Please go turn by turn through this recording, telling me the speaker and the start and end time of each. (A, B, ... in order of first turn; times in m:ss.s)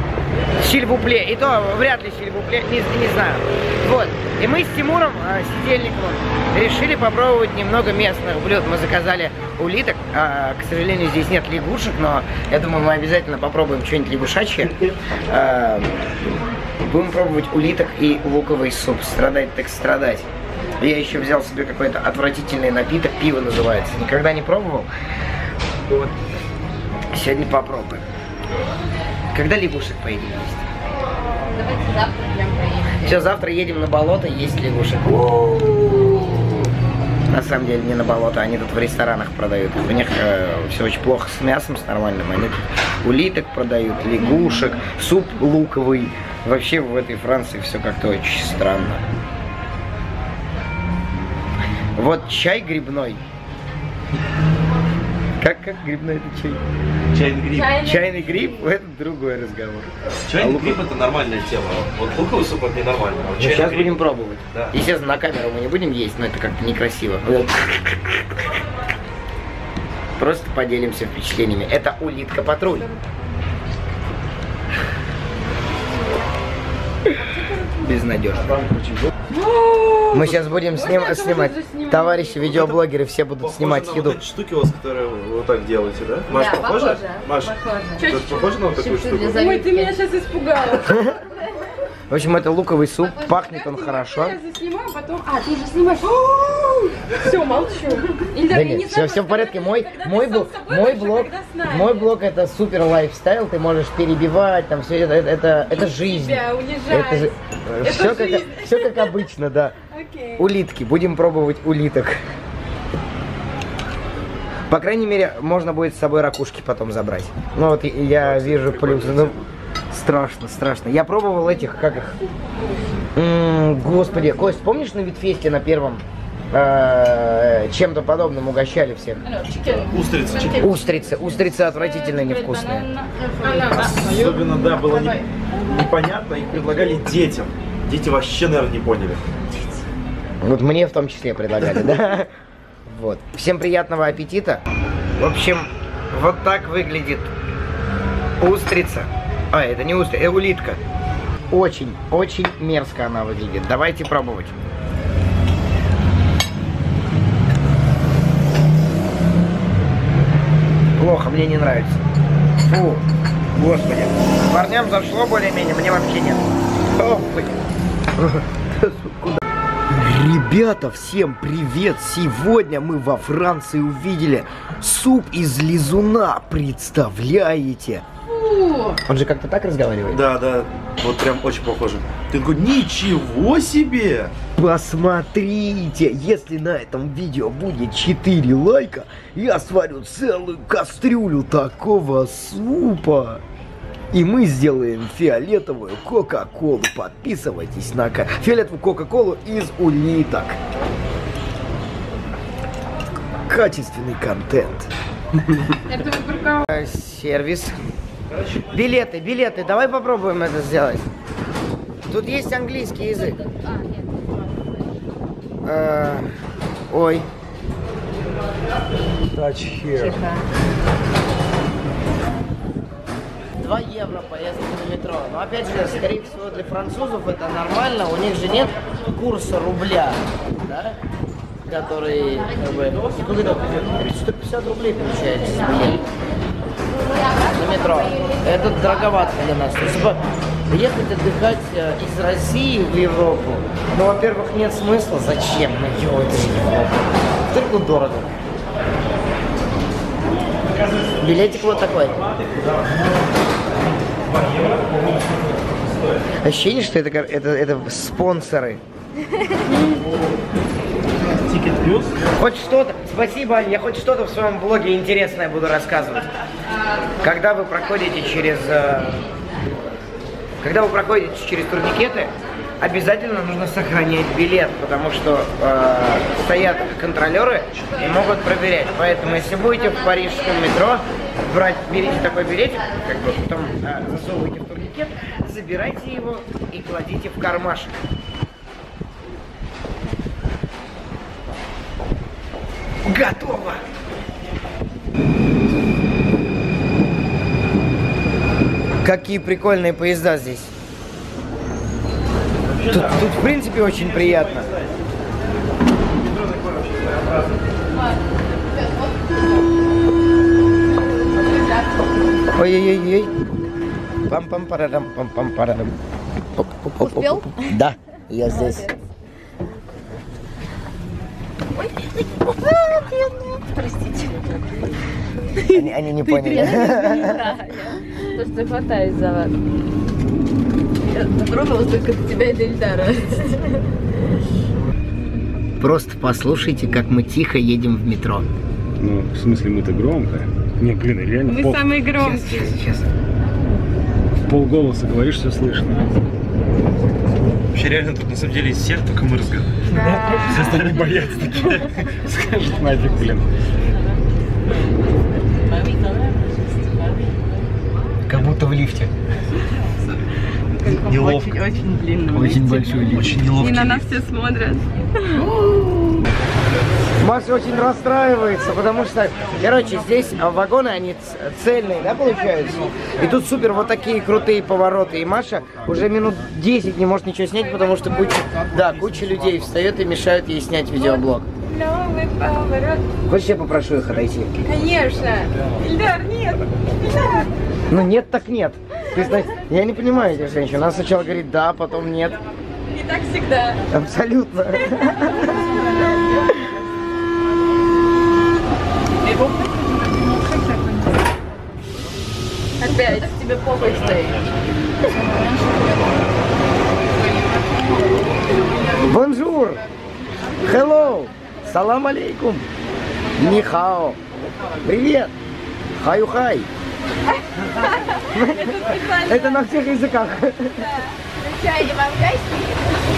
0:00.6-0:15.9 A
0:16.8-0:20.3 A
0:20.8-0:24.9 A
0:25.9-0:26.1 A
0:27.1-0:28.0 A
0:29.3-0:30.7 A
0:31.4-0:33.2 B
0:33.0-0:36.4 A
0:37.3-0:49.0 A
0:52.0-0:53.2 A
0:55.4-0:56.6 A
0:57.1-0:57.9 C
0:57.5-0:58.5 D
0:57.7-1:00.8 A
1:00.2-1:04.7 C
1:03.4-1:08.3 A
1:10.2-1:12.9 A
1:17.2-1:17.9 D
1:17.8-1:18.7 A
1:19.3-1:22.6 D
1:20.1-1:24.2 A
1:22.5-1:22.8 C
1:23.4-1:29.4 C
1:26.3-1:28.2 B
1:28.0-1:28.6 D
1:28.7-1:29.9 B
1:29.3-1:30.9 D
1:30.8-1:31.2 A
1:32.1-1:34.4 A
1:33.0-1:42.1 D
1:38.5-1:49.8 A
1:45.7-1:49.2 D
1:49.9-1:50.4 D
1:50.4-1:52.2 A
1:54.7-1:59.4 A
1:58.2-1:59.4 C
1:59.9-2:02.2 A
2:02.4-2:02.8 D
2:03.1-2:09.2 A
2:09.3-2:10.6 D
2:09.6-2:10.8 C
2:10.6-2:12.9 A
2:11.6-2:15.2 B
2:13.4-2:15.1 D
2:13.7-2:19.2 C
2:20.4-2:22.3 A
2:22.9-2:24.6 A
2:25.2-2:27.3 A
2:28.4-2:30.8 A
2:31.5-2:34.6 A
2:41.0-2:42.0 A
2:42.7-2:47.6 A
2:48.2-2:58.0 A
2:58.3-2:59.0 D
2:59.0-3:00.2 A
3:00.1-3:04.3 C
3:04.6-3:13.4 A
3:14.1-3:20.6 A
3:23.5-3:24.9 A
3:25.8-3:26.6 D
3:26.6-3:27.7 A
3:28.3-3:28.6 C
3:28.7-3:31.1 A
3:32.1-3:33.4 A
3:33.3-3:34.7 B
3:35.6-3:36.3 A
3:36.9-3:37.3 A
3:39.3-3:40.2 E
3:43.5-3:51.0 A
3:51.6-3:56.0 A
3:57.5-4:08.3 A
4:10.7-4:13.2 C
4:11.2-4:12.2 A
4:14.1-4:16.2 C
4:16.4-4:18.8 A
4:21.4-4:22.2 C
4:22.4-4:26.3 A
4:27.2-4:29.3 A
4:30.6-4:48.0 A
4:53.0-4:53.8 A
4:59.0-5:00.7 A
5:02.7-5:05.0 C
5:02.9-5:04.6 A
5:06.2-5:07.6 C
5:07.9-5:09.6 B
5:11.3-5:12.1 B
5:12.6-5:13.3 A
5:14.3-5:16.0 A
5:16.6-5:18.9 A
5:17.0-5:17.7 B
5:18.4-5:19.0 B
5:21.8-5:24.6 D
5:25.6-5:27.0 D
5:25.7-5:27.4 A
5:26.3-5:29.6 B
5:31.1-5:33.8 B
5:35.8-5:38.4 A
5:39.0-5:41.9 E
5:41.4-5:42.7 D
5:42.2-5:43.1 A
5:44.4-5:46.1 E
5:47.7-5:49.7 C
5:50.0-5:50.6 D
5:50.1-5:53.5 E
5:55.5-5:57.4 B
5:58.3-5:59.1 A
6:00.8-6:03.3 B
6:00.9-6:01.6 C
6:02.3-6:04.0 A
6:02.7-6:04.0 C
6:03.5-6:05.4 D
6:05.4-6:06.1 A
6:07.2-6:21.5 A
6:12.5-6:13.2 D
6:17.5-6:18.5 D
6:18.5-6:19.7 C
6:21.0-6:23.1 D
6:23.3-6:24.5 A
6:24.6-6:27.5 D
6:27.9-6:32.4 A
6:32.9-6:33.8 D
6:33.9-6:35.6 A
6:34.8-6:36.5 D
6:39.2-6:41.2 D
6:42.8-6:44.5 B
6:42.9-6:43.3 D
6:45.1-6:45.8 D
6:49.0-6:49.8 A
6:50.6-6:52.7 A
6:53.4-6:54.2 A
6:54.8-6:55.3 A
6:55.9-6:56.7 A
6:57.7-6:59.8 D
6:58.3-7:00.9 A
7:00.7-7:01.2 D
7:01.4-7:03.0 B